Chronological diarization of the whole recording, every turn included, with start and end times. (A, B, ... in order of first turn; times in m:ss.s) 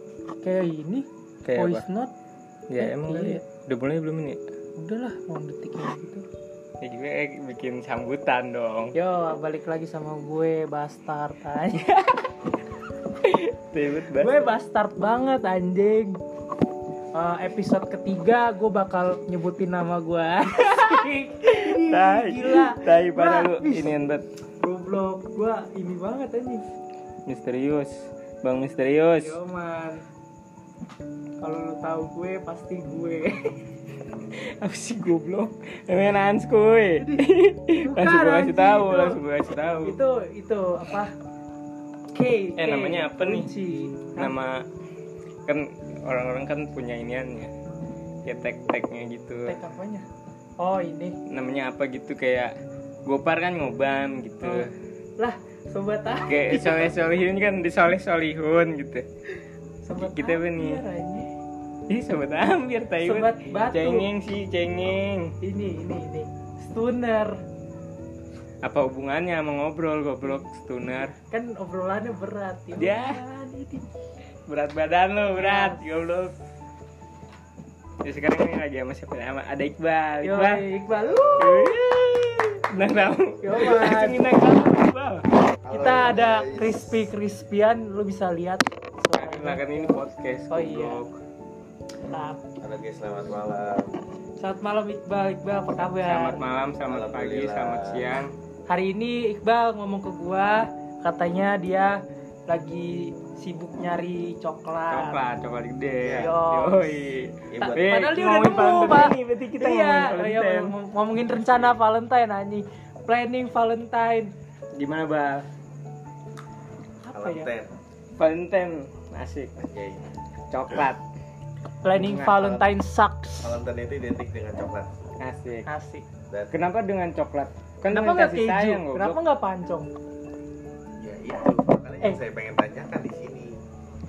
0:00.4-0:02.1 A
0:01.4-0:01.8 B
0:02.7-0:04.4 B
0:02.8-0:03.4 A
0:04.8-0:06.2 A
0:06.8-0:08.9 B
0:08.9-0:11.8 A
0:11.7-0:12.2 B
0:13.2-0:14.5 B
0:14.2-0:16.2 A
0:17.1-0:23.9 A
0:20.6-0:24.2 B
0:24.6-0:26.6 A
0:27.3-0:29.4 B
0:29.2-0:30.0 A
0:31.4-0:33.6 A
0:34.3-0:40.0 B
0:37.0-0:39.2 A
0:39.8-0:41.1 A
0:42.1-0:44.3 A
0:42.6-0:43.5 B
0:44.2-0:44.6 B
0:45.4-0:47.5 B
0:48.2-0:49.6 B
0:49.4-0:50.0 A
0:50.6-0:51.2 A
0:51.3-0:52.5 B
0:53.0-0:54.7 B
0:55.2-0:56.9 A
0:56.3-0:59.0 B
0:59.8-1:01.3 A
1:00.0-1:00.8 B
1:01.9-1:05.3 B
1:03.0-1:04.1 A
1:05.4-1:07.4 A
1:08.6-1:11.2 B
1:11.3-1:13.8 A
1:12.8-1:13.2 B
1:14.5-1:16.3 B
1:15.4-1:15.8 A
1:18.0-1:20.6 B
1:20.2-1:21.7 A
1:21.0-1:21.4 C
1:21.4-1:25.2 B
1:23.4-1:24.2 A
1:25.6-1:27.0 C
1:25.7-1:31.0 A
1:29.2-1:31.1 B
1:32.0-1:32.4 A
1:32.6-1:33.9 C
1:34.4-1:36.4 A
1:36.0-1:38.3 B
1:36.8-1:38.0 C
1:38.7-1:45.2 A
1:44.9-1:50.7 B
1:46.0-1:46.4 C
1:46.2-1:47.1 A
1:47.5-1:47.9 C
1:47.6-1:54.3 A
1:54.7-1:55.4 B
1:57.0-1:57.5 A
1:57.1-1:57.7 C
1:58.2-1:59.5 B
1:59.6-2:00.0 C
2:00.5-2:01.0 B
2:01.8-2:03.6 A
2:01.9-2:02.6 B
2:03.4-2:04.9 C
2:05.2-2:05.7 B
2:05.6-2:06.0 A
2:06.5-2:09.2 B
2:07.9-2:09.9 A
2:11.0-2:13.6 C